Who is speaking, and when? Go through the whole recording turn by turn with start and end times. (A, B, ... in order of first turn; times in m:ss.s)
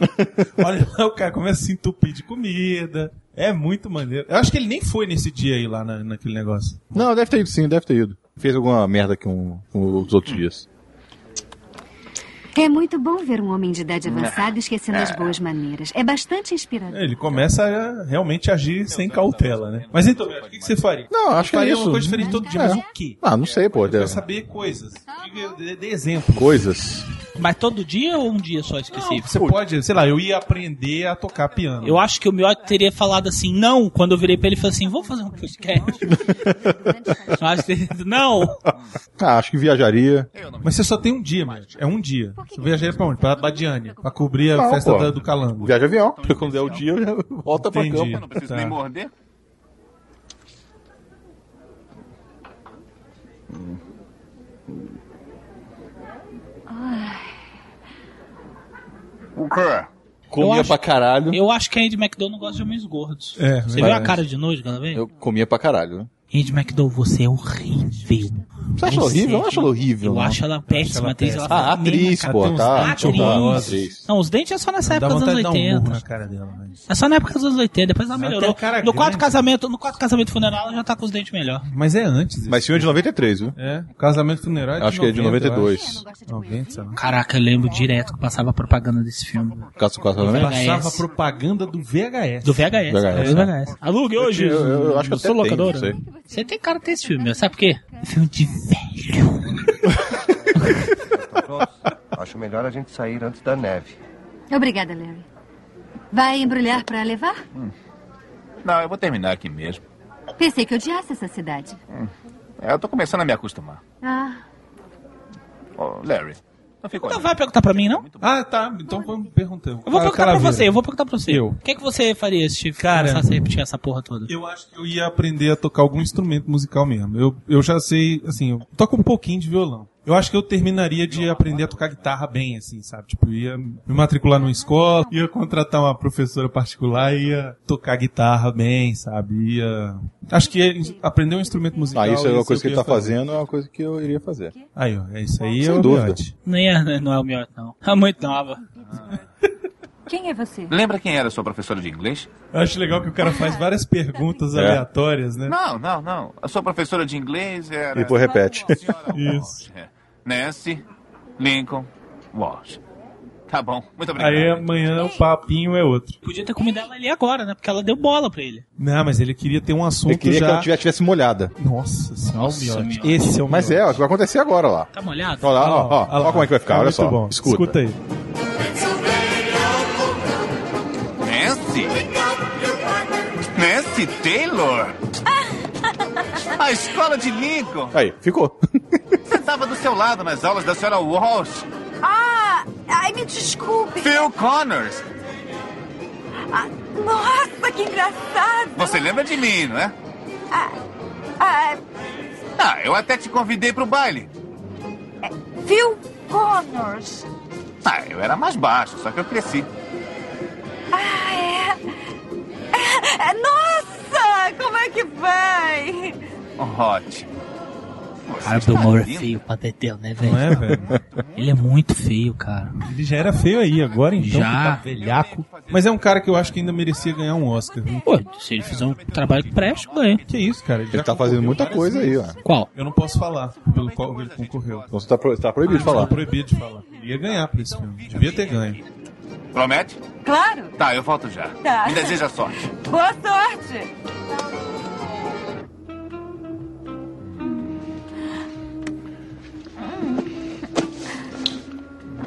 0:00.6-0:07.1 A
0:06.9-0:10.7 B
0:12.6-0:17.0 C
0:14.1-0:15.3 D
0:16.9-0:23.2 A
0:18.8-0:20.9 D
0:21.1-0:24.2 B
0:23.7-0:26.7 A
0:26.3-0:27.1 B
0:27.4-0:29.4 E
0:28.9-0:32.0 A
0:31.8-0:36.0 E
0:37.4-0:38.6 E
0:39.2-0:40.3 B
0:40.3-0:41.8 D
0:40.6-0:45.8 A
0:44.5-0:48.2 B
0:46.0-0:46.9 D
0:47.5-0:48.8 A
0:47.9-0:49.1 D
0:53.5-0:53.8 D
0:59.4-0:59.9 D
1:00.3-1:01.4 B
1:00.4-1:05.1 E
1:03.4-1:04.2 A
1:03.8-1:04.2 B
1:04.9-1:06.1 B
1:06.3-1:16.1 E
1:08.8-1:10.4 B
1:10.6-1:13.9 A
1:11.5-1:14.0 B
1:14.8-1:16.9 A
1:16.8-1:21.7 E
1:18.1-1:19.4 A
1:21.7-1:23.0 A
1:22.5-1:23.6 B
1:23.6-1:27.0 A
1:24.8-1:26.0 B
1:26.9-1:29.7 E
1:29.8-1:30.6 B
1:30.2-1:31.1 E
1:30.2-1:33.5 A
1:32.4-1:39.7 E
1:32.9-1:33.5 B
1:34.2-1:36.0 B
1:41.1-1:44.0 F
1:44.5-1:45.3 C
1:46.1-1:47.4 C
1:48.6-1:49.8 D
1:50.4-1:51.8 C
1:51.9-1:53.8 D
1:54.0-1:54.4 C
1:55.8-1:58.4 D
1:57.0-1:58.1 E
1:58.2-2:00.8 A
1:59.8-2:04.3 E
2:01.3-2:01.6 A
2:02.8-2:03.4 A
2:04.3-2:23.2 A
2:11.0-2:12.2 D
2:21.9-2:24.5 B
2:24.8-2:26.3 A
2:25.6-2:26.2 B
2:26.4-2:28.6 E
2:28.9-2:29.2 D
2:30.1-2:30.7 G
2:30.7-2:32.3 D
2:32.5-2:35.5 A
2:34.5-2:34.8 B
2:35.5-2:40.8 D
2:37.9-2:38.8 B
2:39.1-2:39.7 A
2:41.4-2:42.8 D
2:43.5-2:45.0 D
2:44.1-2:46.2 A
2:46.2-2:48.6 E
2:48.8-2:50.7 A
2:50.1-2:51.5 B
2:51.6-2:54.0 A
2:52.4-2:53.4 E
2:53.4-2:54.9 B
2:54.9-2:56.1 E
2:55.4-2:57.8 B
2:55.5-2:58.0 A
3:01.2-3:02.1 D
3:03.6-3:05.0 D
3:06.6-3:07.9 D
3:07.9-3:09.0 B
3:09.3-3:11.7 D
3:12.0-3:14.3 G
3:14.0-3:15.0 D
3:16.5-3:19.2 G
3:18.8-3:20.0 D
3:21.4-3:21.8 G
3:22.6-3:24.3 D
3:25.2-3:27.3 G
3:27.8-3:29.7 D
3:30.9-3:31.8 G
3:32.7-3:36.2 G
3:36.6-3:37.4 D
3:38.3-3:39.4 D
3:38.4-3:40.7 E
3:40.2-3:40.8 A
3:41.2-3:41.5 D
3:41.4-3:42.8 E
3:42.9-3:48.1 A
3:44.1-3:44.9 E
3:44.9-3:47.1 D
3:48.0-3:50.2 E
3:48.7-3:50.5 D
3:50.3-3:54.9 A
3:50.9-3:52.4 B
3:52.4-3:52.7 E
3:53.6-3:55.0 D
3:54.9-3:56.2 B
3:55.6-3:58.8 A
3:55.7-3:56.0 E
3:57.2-3:58.8 D
3:59.5-4:00.0 D
4:00.2-4:00.7 G
4:00.8-4:02.6 D
4:01.6-4:02.2 G
4:02.7-4:03.9 G